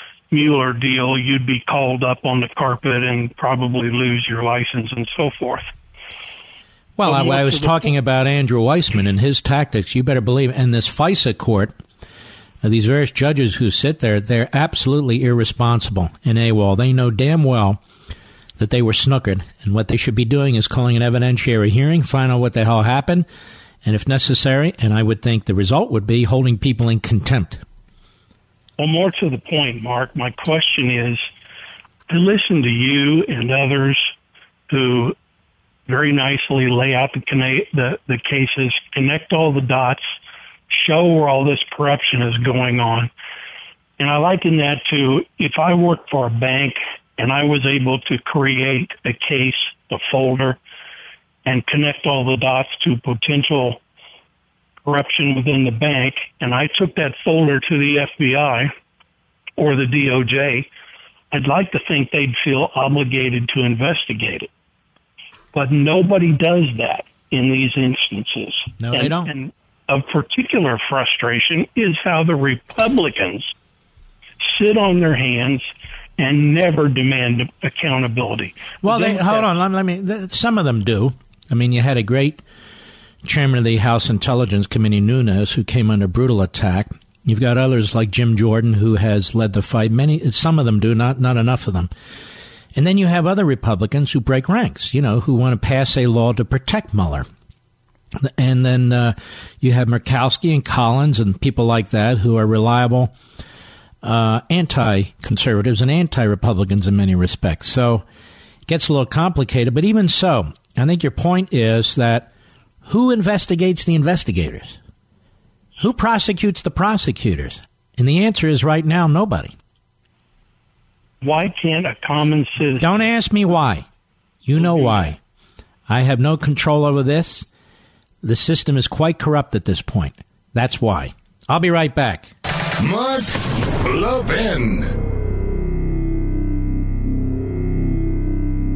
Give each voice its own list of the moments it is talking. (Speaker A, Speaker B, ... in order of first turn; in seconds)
Speaker A: 0.3-5.7, 7.0-7.9, 28.8-31.2, 32.1-34.1, 34.7-35.1, 35.9-40.1, 40.7-43.1, 44.0-50.6, 51.5-53.8, 54.9-58.7, 59.6-60.7, 61.3-64.5, 65.5-73.5, 74.5-75.7, 76.2-79.5, 121.2-122.9, 124.5-125.1
Speaker B: 7.0-11.7, 12.6-17.8, 18.6-23.2, 23.8-27.6, 68.8-69.3, 78.8-82.4, 83.2-91.9, 92.8-97.3, 98.2-103.1, 104.0-108.0, 108.7-112.3, 112.8-114.8, 115.8-119.5, 122.8-123.8, 124.4-125.2, 125.9-127.5, 128.2-132.3
Speaker C: 132.8-134.9